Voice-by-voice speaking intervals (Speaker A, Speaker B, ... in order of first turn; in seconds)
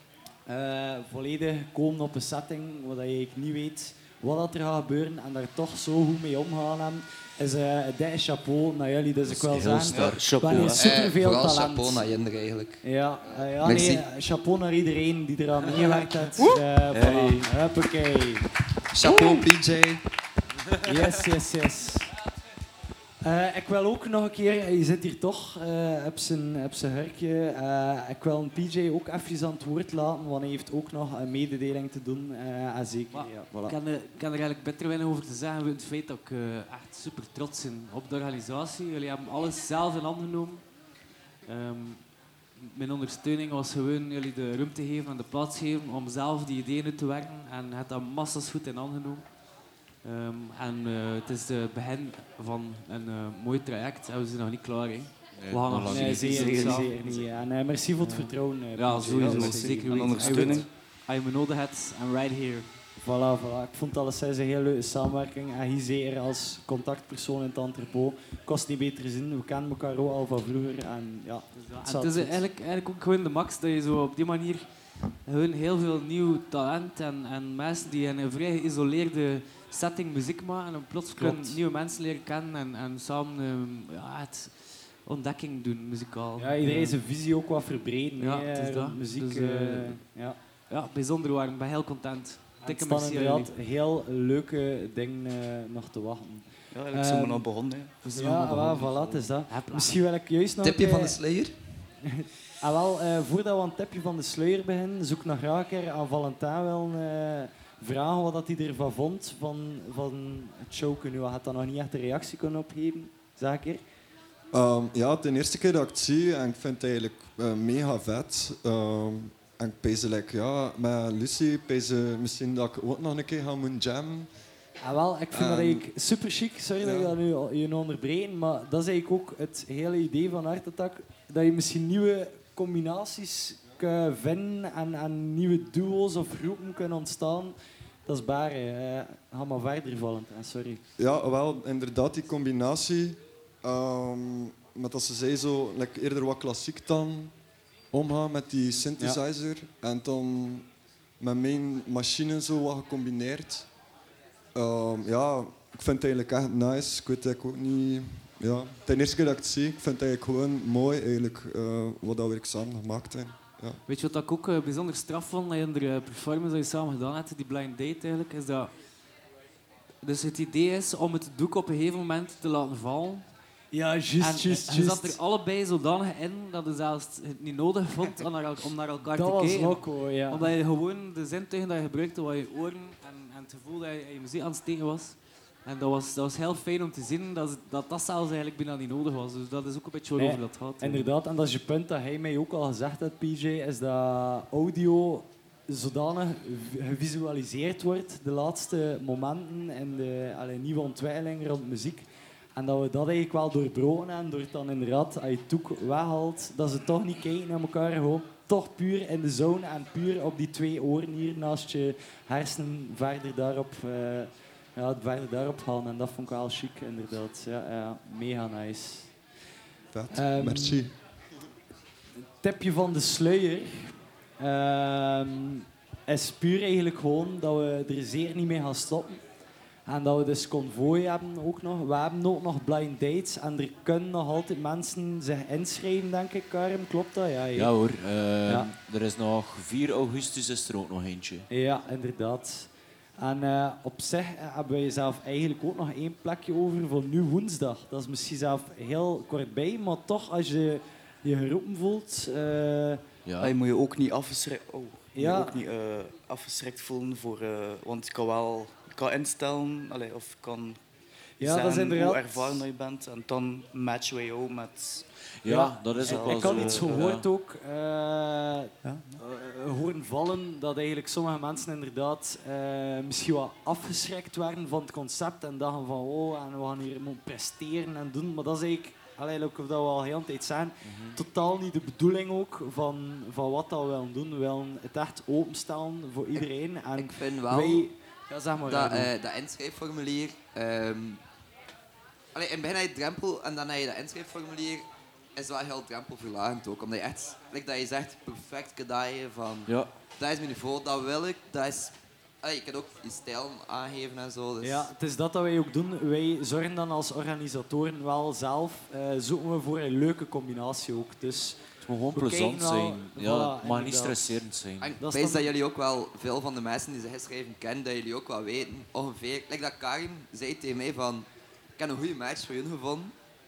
Speaker A: 0.5-12.1, 12.8-18.4, 19.0-19.5, 20.8-22.1, 23.2-33.8, 55.9-60.7, 63.0-72.4, 81.2-81.6, 86.4-90.4, 92.6-97.4, 98.1-101.2, 102.0-113.8, 124.8-137.6, 138.1-140.8, 173.7-175.2, 179.1-180.5, 190.2-202.1, 202.6-219.1, 220.1-220.9, 222.4-229.2, 229.9-237.7, 238.5-238.7, 241.5-253.0, 255.2-255.6, 261.4-262.6, 265.5-289.1, 304.6-314.4, 315.0-315.5
Speaker B: 9.3-10.7, 16.9-17.5, 55.4-56.3, 237.5-241.5, 253.2-253.6, 265.4-267.2, 280.8-281.2, 311.8-314.9
Speaker C: 9.9-10.9, 56.2-56.9, 59.0-60.7, 96.7-99.2, 253.4-260.8, 261.4-265.1, 266.0-266.9, 268.8-269.2
Speaker D: 10.6-14.0, 18.9-20.0, 100.6-101.5, 286.4-287.9, 288.7-291.2, 292.3-294.8, 295.4-304.9, 314.8-323.1
Speaker E: 33.1-40.7, 41.5-42.0, 42.6-49.2, 50.0-56.9, 58.0-62.7, 71.5-74.7, 75.2-87.0, 88.2-90.0, 90.7-93.5, 98.2-100.0, 163.9-168.7, 170.0-173.3, 174.2-191.1
Speaker F: 114.5-124.3, 125.3-125.9, 126.8-127.2, 141.0-147.3, 147.9-150.7, 151.2-153.7, 154.6-163.8, 219.9-220.9